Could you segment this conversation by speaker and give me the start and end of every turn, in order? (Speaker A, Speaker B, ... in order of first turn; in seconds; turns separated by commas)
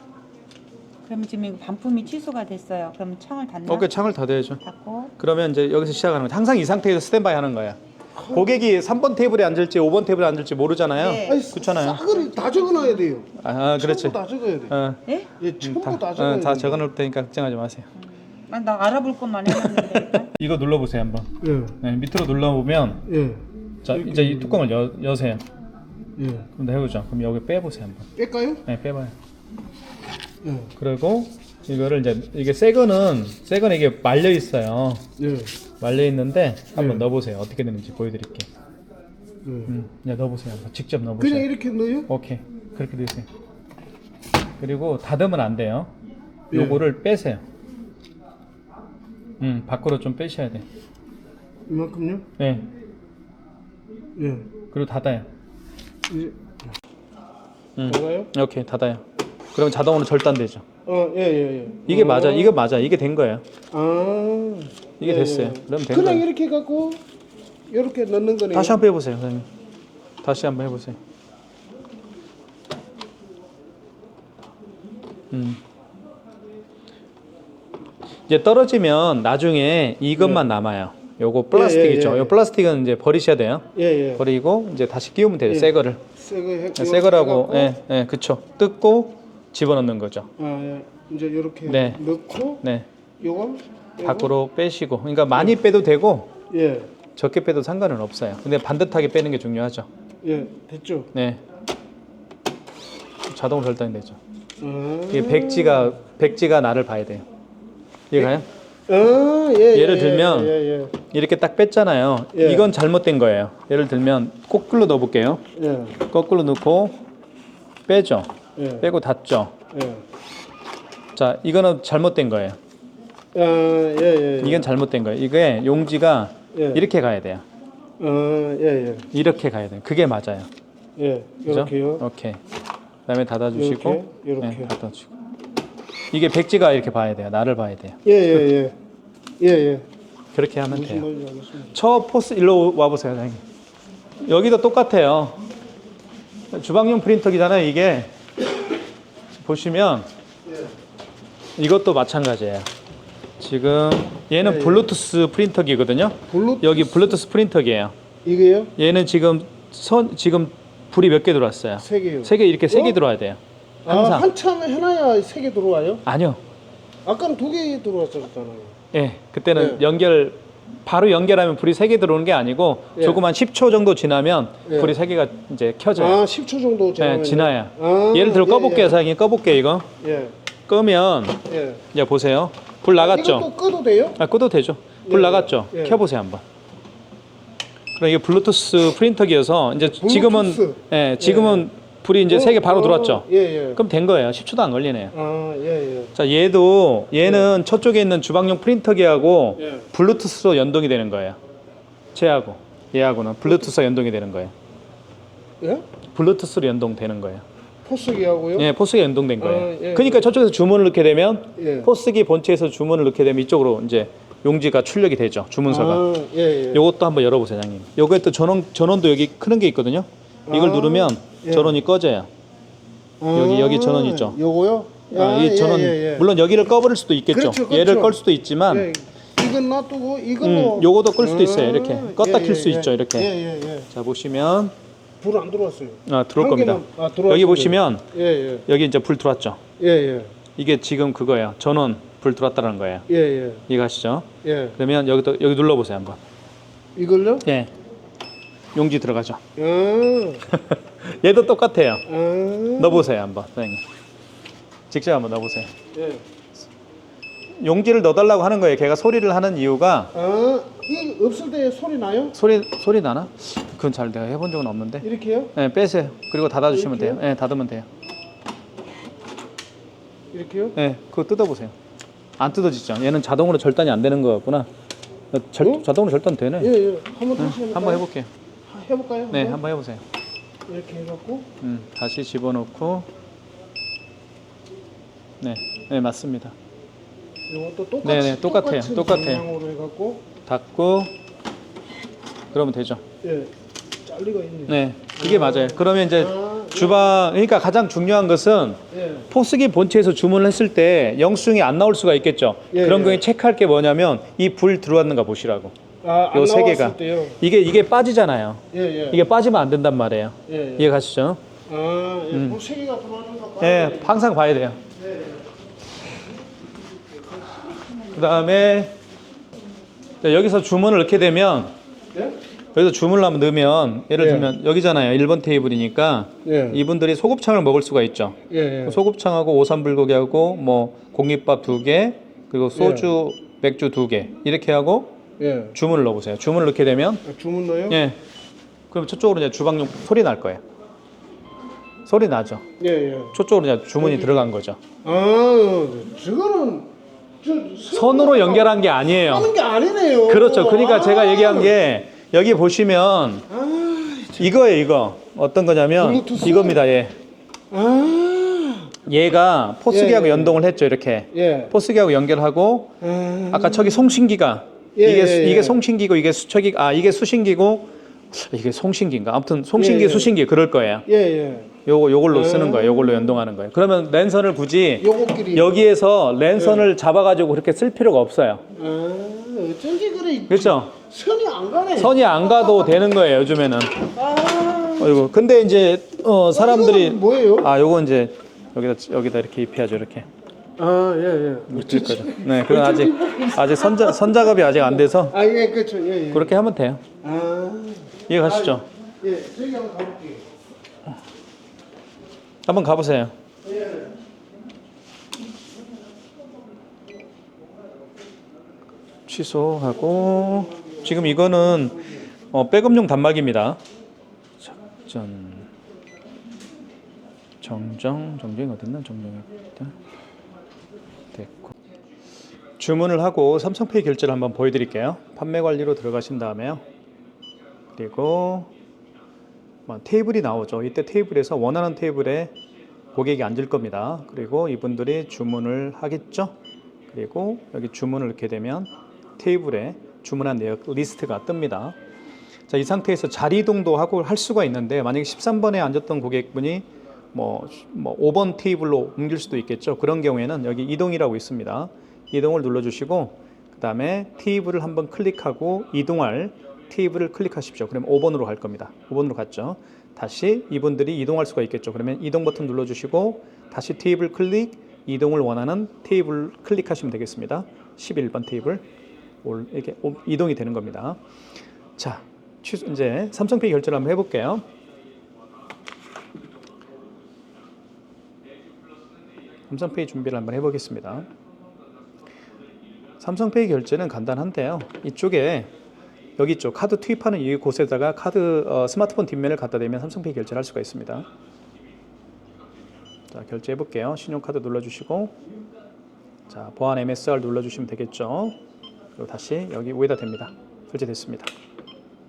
Speaker A: 1.0-3.9, Speaker B: 3.7-4.6, Speaker A: 4.6-5.1, Speaker B: 5.2-12.0, Speaker C: 8.2-8.6, Speaker A: 11.0-13.2, Speaker C: 11.2-13.3, Speaker B: 13.2-15.0, Speaker C: 13.8-14.7, Speaker A: 15.0-15.3, Speaker C: 15.4-16.9, Speaker B: 15.6-17.9, Speaker A: 18.0-20.3, Speaker B: 19.5-23.0, Speaker C: 21.4-21.7, Speaker C: 23.1-24.6, Speaker B: 23.8-25.4, Speaker C: 26.2-26.4, Speaker B: 26.5-28.1, Speaker C: 28.2-28.6, Speaker B: 28.6-29.1, Speaker C: 30.4-30.7, Speaker B: 30.8-35.0, Speaker C: 35.2-35.5, Speaker B: 35.8-38.5, Speaker C: 39.4-39.7, Speaker B: 39.6-41.5, Speaker C: 41.2-42.1, Speaker B: 42.0-43.3, Speaker B: 44.6-45.9, Speaker B: 46.5-47.4, Speaker C: 46.5-46.8, Speaker B: 49.4-50.6, Speaker C: 51.6-52.2, Speaker B: 52.4-52.6, Speaker C: 54.1-54.5, Speaker B: 54.7-55.2, Speaker C: 56.1-56.4, Speaker B: 57.8-59.0, Speaker C: 57.9-58.3, Speaker B: 59.5-60.6, Speaker C: 60.9-62.5, Speaker B: 61.9-63.4, Speaker C: 63.7-67.0, Speaker B: 65.0-66.3, Speaker C: 67.7-68.8, Speaker B: 68.5-69.5, Speaker B: 70.2-71.0, Speaker B: 75.3-75.6, Speaker B: 78.3-86.0, Speaker C: 80.2-80.4, Speaker C: 81.5-82.4, Speaker C: 83.7-84.2, Speaker C: 85.5-87.7, Speaker B: 86.8-90.3, Speaker C: 90.4-92.6, Speaker B: 91.6-92.0, Speaker B: 92.6-92.9, Speaker C: 93.2-94.3, Speaker B: 94.0-96.3, Speaker C: 96.5-96.9, Speaker B: 97.1-99.9, Speaker C: 100.2-101.1, Speaker B: 101.1-101.4, Speaker B: 103.3-104.2, Speaker C: 104.6-105.9, Speaker B: 105.1-107.2, Speaker B: 108.1-108.5, Speaker C: 108.9-110.9, Speaker B: 109.7-115.4, Speaker C: 112.3-112.7, Speaker C: 115.5-116.0, Speaker B: 116.0-117.0, Speaker B: 117.9-119.5, Speaker C: 118.5-118.9, Speaker C: 119.7-120.0, Speaker B: 121.1-122.6, Speaker C: 123.3-124.7, Speaker B: 124.4-127.4, Speaker C: 126.5-126.8, Speaker C: 128.0-129.1, Speaker B: 129.1-130.5, Speaker C: 130.9-132.1, Speaker B: 131.4-132.4, Speaker B: 133.1-135.1, Speaker C: 133.5-134.7, Speaker B: 136.1-138.0, Speaker C: 138.0-138.7, Speaker C: 139.4-139.8, Speaker B: 140.3-141.1, Speaker C: 140.7-141.7, Speaker B: 141.7-143.4, Speaker B: 144.2-145.4, Speaker B: 146.5-148.1, Speaker B: 149.4-150.1, Speaker B: 151.6-152.7, Speaker B: 153.4-157.9, Speaker C: 154.4-154.9, Speaker C: 156.3-157.1, Speaker C: 158.2-158.7, Speaker B: 158.8-164.3, Speaker C: 161.8-162.9, Speaker C: 163.8-166.0, Speaker B: 166.1-166.4, Speaker C: 167.0-168.7, Speaker B: 168.9-176.2, Speaker C: 169.5-169.8, Speaker C: 175.9-179.0, Speaker B: 177.0-179.9, Speaker C: 180.0-180.3, Speaker B: 180.7-183.5, Speaker C: 181.5-181.8, Speaker C: 183.0-184.2, Speaker B: 184.1-186.4, Speaker C: 185.1-186.0, Speaker B: 188.0-195.1, Speaker C: 189.9-191.6, Speaker C: 192.3-193.8, Speaker C: 195.1-196.1, Speaker B: 196.1-201.4, Speaker B: 202.1-204.5, Speaker C: 205.6-205.8, Speaker B: 206.1-207.4, Speaker C: 207.8-208.7, Speaker B: 208.5-216.2, Speaker C: 209.4-210.3, Speaker C: 211.6-211.9, Speaker C: 215.7-216.8, Speaker B: 216.7-222.3, Speaker C: 220.5-221.8, Speaker C: 223.2-226.3, Speaker B: 223.3-224.4, Speaker B: 225.1-228.9, Speaker C: 227.3-228.2, Speaker C: 228.7-233.9, Speaker B: 230.4-233.3, Speaker B: 233.9-234.7, Speaker C: 235.2-238.6, Speaker B: 236.0-238.1, Speaker B: 238.7-239.6, Speaker C: 239.8-240.3, Speaker B: 240.5-243.1, Speaker C: 243.1-243.6, Speaker B: 243.7-246.2, Speaker C: 244.4-244.8, Speaker C: 246.9-247.4, Speaker B: 247.4-247.7, Speaker B: 248.7-249.4, Speaker C: 249.6-250.4, Speaker B: 250.5-252.0, Speaker C: 252.1-253.1, Speaker B: 252.8-253.8, Speaker B: 254.9-255.7, Speaker C: 255.9-256.2, Speaker B: 257.6-260.1, Speaker C: 260.1-262.3, Speaker B: 262.3-267.9, Speaker C: 265.0-265.5, Speaker C: 266.7-267.2, Speaker C: 270.3-270.7, Speaker B: 270.7-271.7, Speaker B: 272.4-274.7, Speaker B: 275.3-276.7, Speaker C: 276.6-278.0, Speaker B: 277.3-278.3, Speaker C: 278.7-279.6, Speaker B: 279.3-280.0, Speaker C: 280.7-281.4, Speaker B: 281.6-283.1, Speaker B: 285.4-286.5, Speaker C: 287.5-290.2, Speaker B: 288.0-289.5, Speaker B: 290.4-291.1, Speaker B: 292.5-293.0, Speaker C: 293.2-293.5, Speaker C: 294.0-297.0, Speaker B: 294.7-305.7, Speaker C: 298.9-299.2, Speaker C: 302.7-303.2, Speaker C: 306.0-307.4, Speaker B: 306.3-311.4, Speaker C: 308.7-309.2, Speaker C: 310.5-310.9, Speaker C: 311.7-314.2, Speaker B: 312.3-312.6, Speaker B: 313.6-314.8, Speaker B: 318.1-318.9, Speaker B: 320.2-321.7, Speaker B: 322.7-335.2, Speaker C: 324.2-324.5, Speaker C: 326.4-326.8, Speaker C: 328.5-329.0, Speaker C: 332.8-333.1, Speaker C: 335.4-335.7, Speaker B: 335.7-337.2, Speaker C: 337.2-338.0, Speaker B: 337.9-338.2, Speaker B: 338.9-340.6, Speaker B: 342.1-342.6, Speaker C: 342.8-343.3, Speaker B: 343.3-344.8, Speaker C: 344.0-344.4, Speaker C: 345.0-346.9, Speaker C: 347.4-351.7, Speaker B: 347.9-349.5, Speaker B: 350.2-353.4, Speaker C: 353.5-354.5, Speaker B: 354.4-357.1, Speaker C: 356.0-356.8, Speaker C: 357.7-358.9, Speaker B: 359.0-362.9, Speaker C: 359.9-360.6, Speaker C: 361.3-361.7, Speaker C: 363.0-364.0, Speaker B: 363.5-371.1, Speaker C: 364.9-365.8, Speaker C: 369.7-370.3, Speaker C: 371.1-371.7, Speaker B: 371.8-378.6, Speaker C: 372.3-373.4, Speaker C: 375.0-375.7, Speaker C: 376.6-376.8, Speaker C: 378.8-382.2, Speaker B: 380.5-381.0, Speaker B: 381.9-384.1, Speaker C: 384.1-385.1, Speaker B: 384.9-390.3, Speaker C: 386.5-387.7, Speaker C: 390.8-394.3, Speaker B: 391.7-395.4, Speaker C: 395.3-396.5, Speaker B: 396.3-397.0, Speaker C: 397.2-400.4, Speaker B: 398.3-398.9, Speaker B: 402.6-403.3, Speaker C: 403.7-404.0, Speaker B: 409.2-413.8, Speaker B: 414.6-415.7, Speaker B: 417.6-419.9, Speaker B: 421.3-421.7, Speaker B: 422.8-426.8, Speaker B: 427.9-428.7, Speaker B: 429.9-432.5, Speaker B: 433.1-436.5, Speaker B: 437.1-441.9, Speaker B: 442.7-468.8, Speaker B: 469.4-471.2, Speaker B: 472.0-474.6, Speaker B: 479.7-481.3, Speaker B: 483.2-485.7, Speaker B: 486.4-491.2, Speaker B: 493.3-495.3, Speaker B: 496.5-498.6, Speaker B: 499.1-501.5